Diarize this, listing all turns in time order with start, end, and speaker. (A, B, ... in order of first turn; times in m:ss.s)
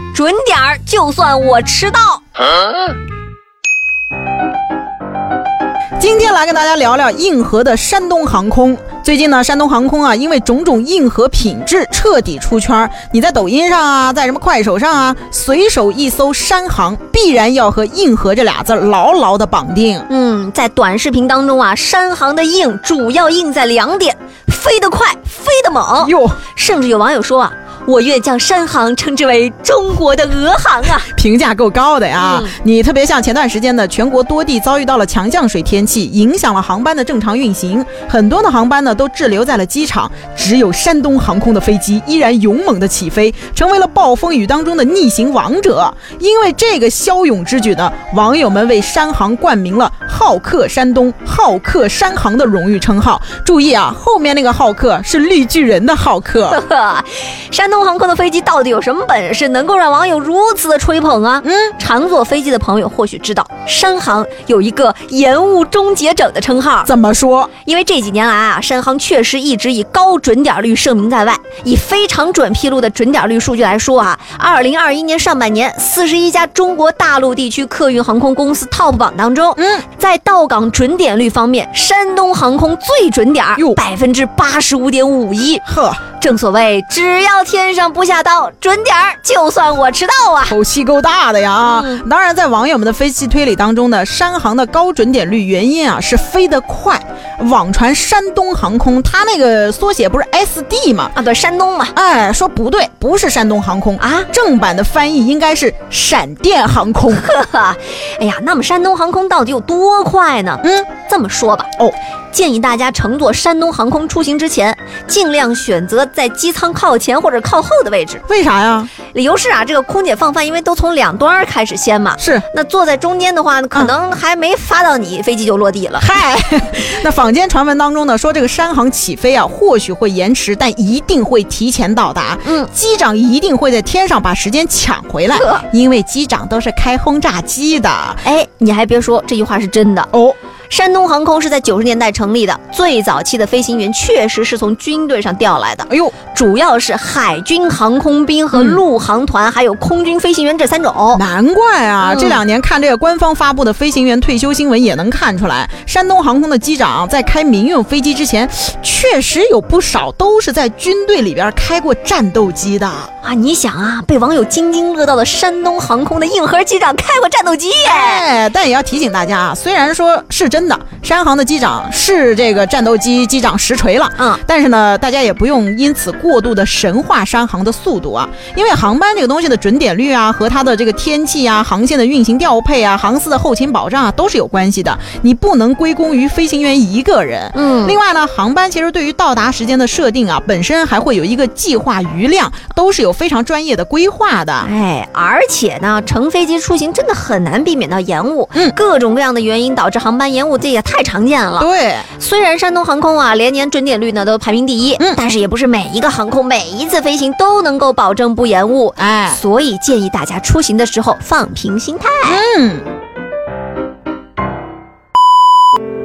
0:00.1-0:02.2 A
0:06.0-0:20.1 B
0:20.1-0:31.1 A
0:26.0-0:26.4 B
0:31.1-0:56.6 B
0:32.2-0:32.5 A
0:56.5-1:06.9 A
1:01.4-1:01.8 B
1:06.9-1:07.5 B
1:07.6-1:25.6 A
1:19.6-1:19.8 B
1:25.6-1:26.0 B
1:26.2-1:30.6 A
1:30.5-1:41.1 B
1:31.6-1:32.0 A
1:41.2-1:41.9 A
1:42.0-1:47.3 B
1:44.0-1:44.3 A
1:47.1-1:51.7 A
1:50.6-1:50.9 B
1:52.3-1:58.2 A
1:58.3-1:58.9 B
1:59.1-2:06.1 A
2:02.2-2:02.5 B
2:06.0-2:18.2 B
2:12.4-2:12.7 A
2:15.3-2:15.6 A
2:18.2-2:20.1 A
2:20.7-2:31.2 A
2:25.9-2:26.2 B
2:28.5-2:28.8 B
2:31.1-2:43.1 B
2:32.0-2:32.4 A
2:43.2-2:48.2 A
2:47.8-3:14.7 B
3:07.5-3:08.0 A
3:14.6-3:32.4 A
3:21.6-3:22.1 B
3:29.0-3:29.4 B
3:32.2-3:32.8 B